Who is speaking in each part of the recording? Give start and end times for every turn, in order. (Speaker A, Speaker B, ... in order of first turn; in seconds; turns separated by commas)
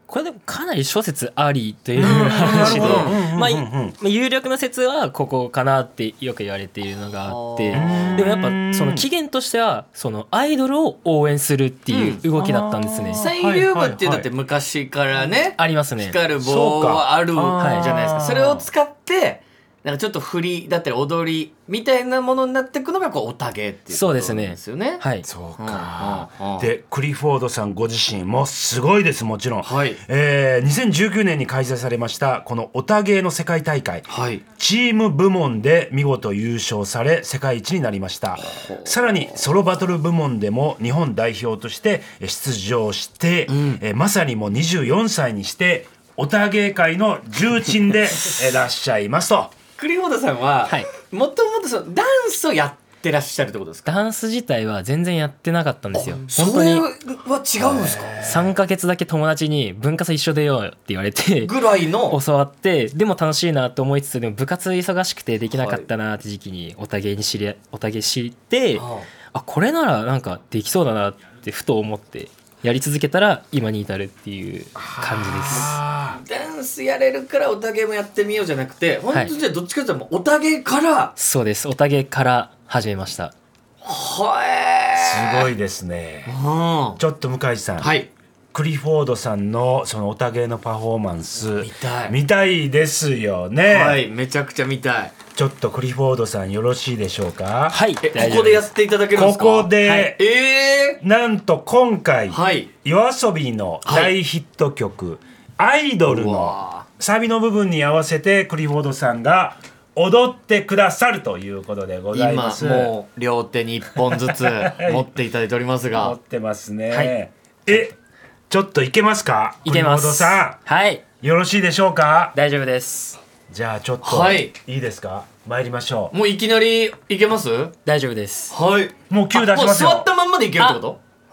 Speaker A: 0.1-13.2, Speaker B: 1.9-4.0, Speaker C: 2.0-3.2, Speaker C: 7.2-8.3, Speaker B: 7.7-9.1, Speaker C: 11.9-12.2, Speaker B: 12.3-14.3, Speaker C: 13.1-25.0, Speaker A: 15.6-16.2, Speaker B: 16.4-18.7, Speaker A: 17.6-17.9, Speaker A: 23.9-25.3, Speaker B: 25.3-49.5, Speaker C: 25.6-26.7, Speaker C: 29.6-30.0, Speaker C: 34.1-34.4, Speaker C: 38.4-39.4, Speaker C: 43.5-43.8, Speaker C: 49.8-53.9, Speaker A: 53.9-56.9, Speaker C: 55.9-58.4, Speaker B: 57.6-58.5, Speaker A: 58.2-61.5, Speaker C: 61.4-62.2, Speaker A: 62.1-75.8, Speaker C: 65.5-65.9, Speaker C: 68.8-69.1, Speaker B: 74.8-76.2, Speaker C: 75.5-81.1, Speaker A: 81.2-83.3, Speaker C: 83.8-85.5, Speaker B: 85.0-86.4, Speaker C: 86.3-87.0, Speaker B: 87.0-88.0, Speaker C: 87.8-88.1, Speaker B: 88.5-94.0, Speaker C: 91.6-92.2, Speaker C: 93.7-95.2, Speaker B: 95.3-97.8, Speaker A: 97.7-98.7, Speaker C: 98.0-101.0, Speaker B: 99.1-100.2, Speaker A: 99.8-100.1, Speaker B: 101.0-112.9, Speaker C: 102.3-102.7, Speaker C: 103.9-104.1, Speaker C: 106.1-106.9, Speaker C: 112.1-116.2, Speaker B: 114.3-115.1, Speaker B: 115.9-118.0, Speaker B: 118.5-120.6, Speaker A: 119.7-121.0, Speaker B: 121.2-122.3, Speaker A: 122.3-123.2, Speaker B: 123.5-126.1, Speaker C: 124.0-124.5, Speaker C: 126.1-127.7, Speaker A: 127.8-128.5, Speaker C: 128.5-131.0, Speaker B: 129.1-130.1